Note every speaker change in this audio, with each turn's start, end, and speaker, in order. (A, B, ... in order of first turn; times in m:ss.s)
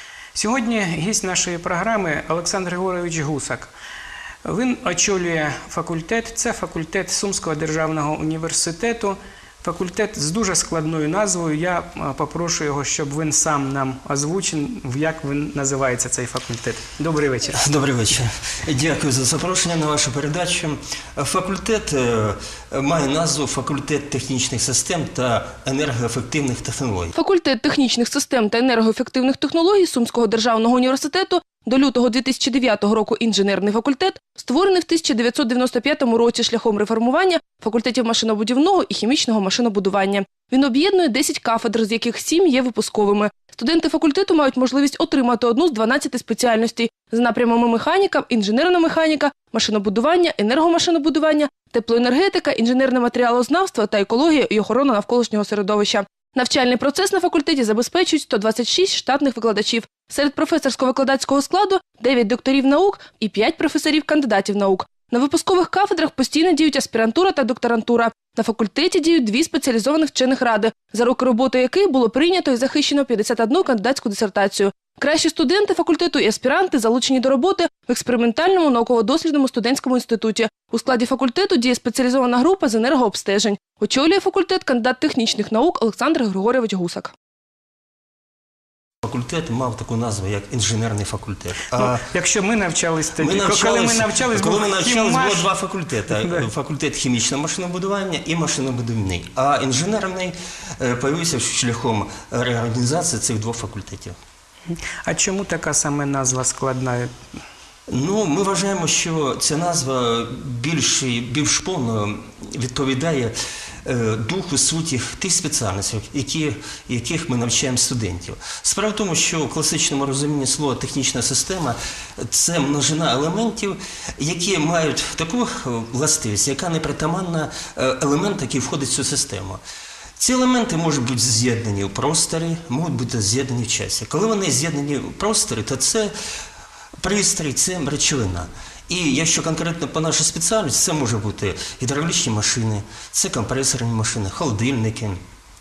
0:00.4-0:03.7 A
0:04.4-0:17.6 A
0:17.5-0:27.1 B
0:27.2-1:27.1 C
1:29.0-1:32.0 B
1:31.7-1:35.5 A
1:33.2-1:44.2 B
1:36.1-1:36.5 A
1:44.7-1:47.1 A
1:47.9-2:09.6 B
2:10.2-2:16.1 B
2:17.0-2:25.2 B